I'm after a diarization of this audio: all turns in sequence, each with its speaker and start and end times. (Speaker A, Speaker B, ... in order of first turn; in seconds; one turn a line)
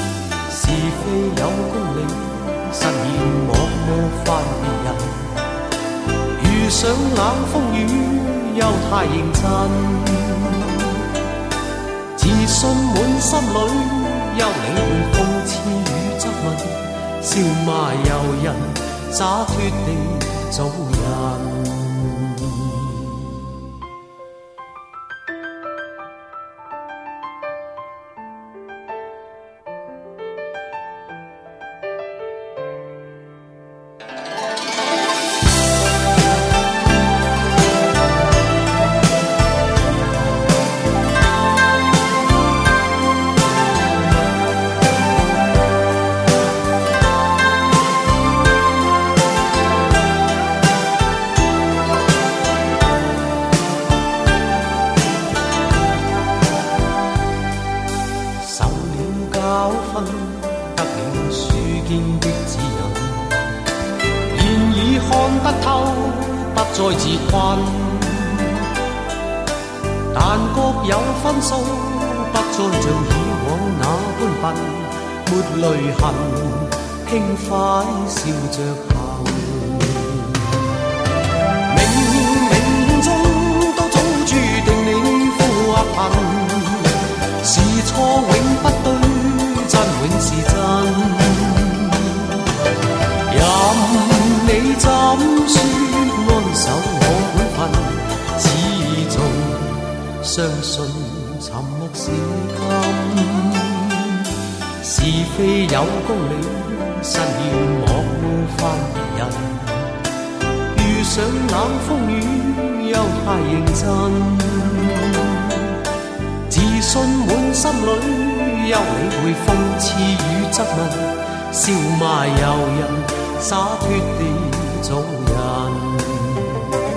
Speaker A: 0.5-5.3
Speaker A: 6.4-11.0
Speaker A: 12.2-22.7
Speaker A: 58.4-63.5
Speaker A: 64.3-68.6
Speaker A: 70.1-80.6
Speaker A: 81.7-92.2
Speaker A: 93.3-104.2
Speaker A: 104.8-109.9
Speaker A: 110.7-115.6
Speaker A: 116.5-126.7